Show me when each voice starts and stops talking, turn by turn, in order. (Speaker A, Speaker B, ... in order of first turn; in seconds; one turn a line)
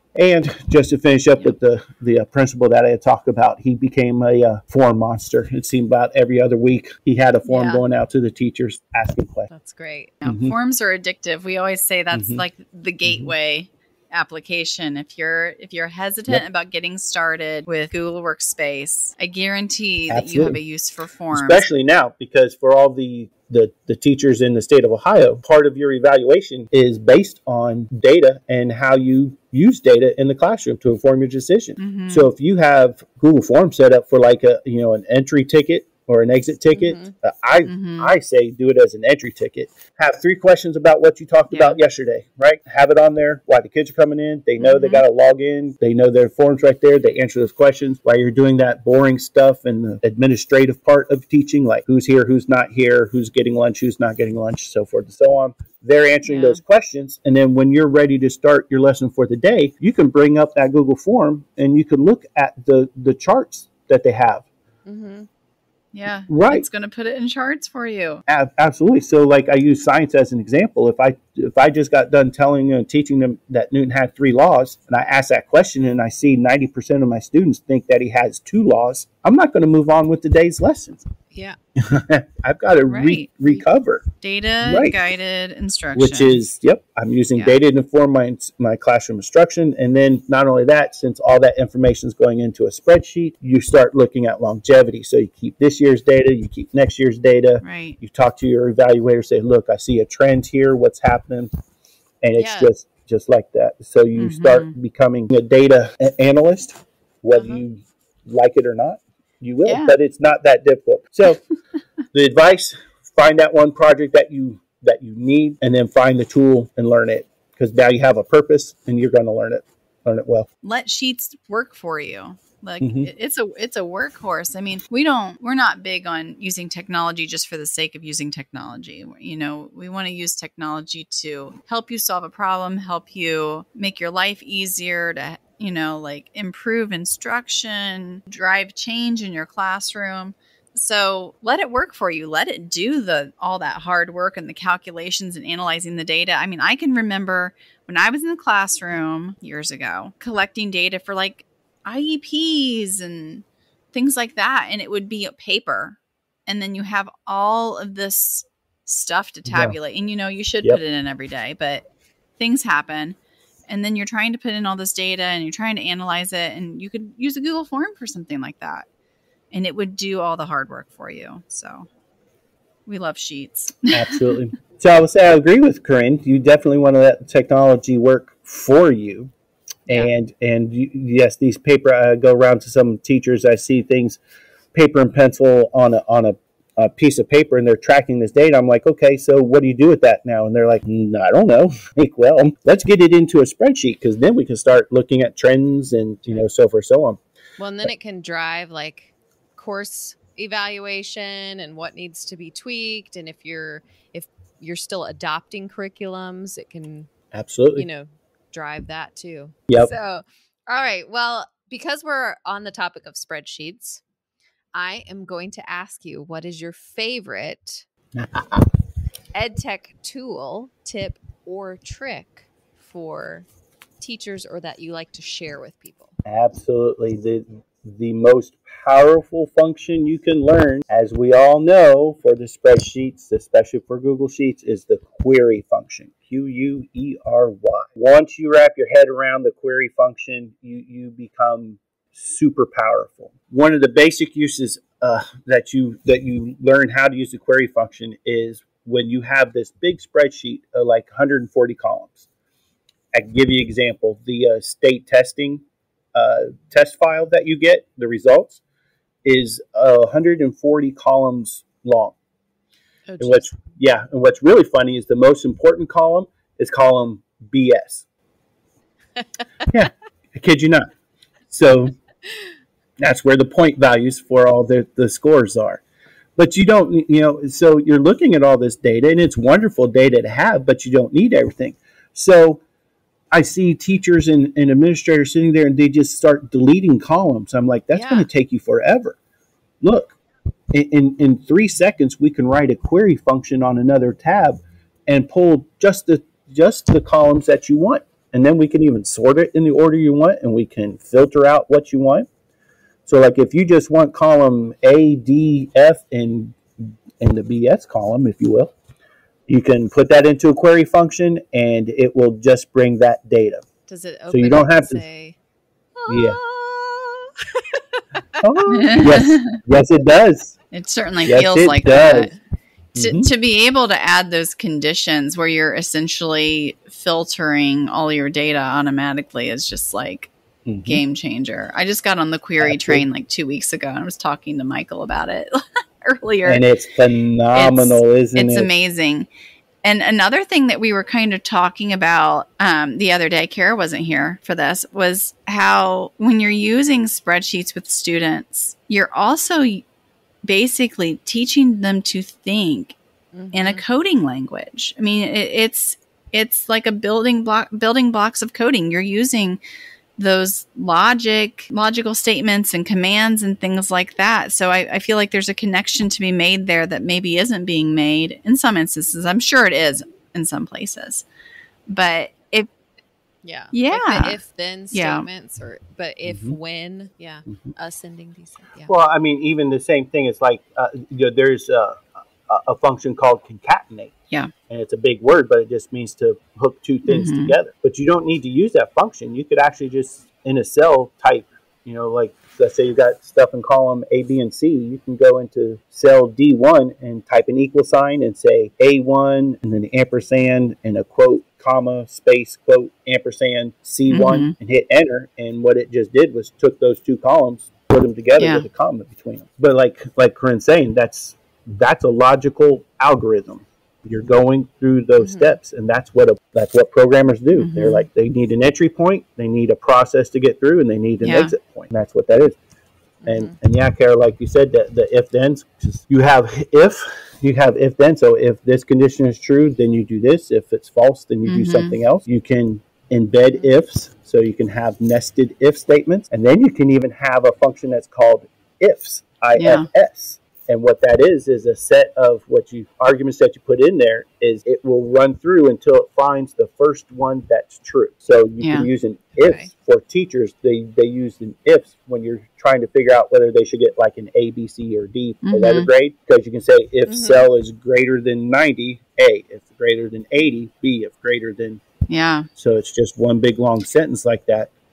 Speaker A: 0.1-9.5
Speaker B: 7.5-7.8
Speaker C: 9.5-10.2
Speaker B: 10.2-21.6
Speaker A: 10.2-10.5
Speaker A: 12.1-12.4
Speaker A: 13.0-13.3
Speaker A: 20.1-20.6
Speaker A: 21.3-64.5
Speaker B: 31.8-32.3
Speaker C: 36.7-37.1
Speaker B: 37.6-38.1
Speaker B: 41.5-41.8
Speaker B: 44.6-45.0
Speaker B: 56.2-56.6
Speaker C: 64.8-65.3
Speaker B: 65.9-68.2
Speaker A: 66.3-66.7
Speaker A: 68.3-81.0
Speaker C: 81.3-81.6
Speaker A: 81.8-84.0
Speaker B: 82.9-83.6
Speaker B: 84.2-86.5
Speaker A: 84.6-85.0
Speaker A: 86.0-101.5
Speaker B: 97.6-98.0
Speaker A: 102.2-111.4
Speaker C: 102.4-102.7
Speaker B: 104.2-104.7
Speaker C: 107.3-107.6
Speaker B: 109.6-109.9
Speaker A: 112.1-120.5
Speaker B: 120.6-161.8
Speaker A: 122.8-123.1
Speaker A: 159.5-159.8
Speaker B: 162.4-163.2
Speaker B: 163.7-168.8
Speaker B: 169.5-171.9
Speaker B: 172.8-174.2
Speaker A: 173.9-179.3
Speaker A: 179.9-184.2
Speaker A: 184.7-197.2
Speaker C: 197.6-207.1
Speaker A: 207.3-207.9
Speaker C: 207.7-214.0
Speaker C: 214.7-217.8
Speaker A: 218.1-218.7
Speaker C: 219.3-223.5
Speaker C: 224.0-226.1
Speaker A: 226.2-252.2
Speaker A: 253.1-258.6
Speaker A: 259.2-262.2
Speaker C: 263.1-263.5
Speaker A: 263.2-268.0
Speaker A: 269.7-270.9
Speaker A: 271.5-271.9
Speaker A: 273.0-275.8
Speaker A: 276.4-282.6
Speaker A: 283.3-289.2
Speaker C: 287.9-288.3
Speaker A: 289.8-290.2
Speaker A: 290.7-302.3
Speaker A: 303.1-308.7
Speaker A: 309.5-313.6
Speaker C: 313.9-315.4
Speaker A: 314.3-315.0
Speaker C: 316.0-318.4
Speaker A: 316.1-316.4
Speaker A: 318.4-320.6
Speaker B: 318.7-319.6
Speaker B: 320.7-322.3
Speaker A: 321.2-322.3
Speaker A: 322.9-323.3
Speaker B: 322.9-330.3
Speaker A: 330.6-331.0
Speaker B: 330.8-336.6
Speaker A: 332.6-333.1
Speaker A: 336.4-338.7
Speaker B: 337.5-339.3
Speaker B: 339.8-349.8
Speaker B: 350.4-352.9
Speaker C: 353.3-353.8
Speaker B: 353.5-359.6
Speaker B: 360.2-371.2
Speaker B: 371.9-372.7
Speaker C: 373.4-378.9
Speaker B: 373.7-374.4
Speaker B: 374.9-375.2
Speaker A: 376.2-376.6
Speaker A: 378.9-384.1
Speaker A: 384.7-422.6
Speaker B: 387.1-387.6
Speaker B: 404.1-404.5
Speaker B: 408.4-408.6
Speaker C: 415.2-415.5
Speaker B: 417.5-418.1
Speaker B: 421.2-421.5
Speaker C: 423.2-423.5
Speaker A: 423.2-461.8
Speaker B: 431.4-431.9
Speaker B: 439.6-439.9
Speaker B: 448.6-448.9
Speaker C: 449.4-449.7
Speaker B: 455.4-455.9
Speaker C: 457.1-457.5
Speaker B: 462.1-462.5
Speaker A: 462.6-464.7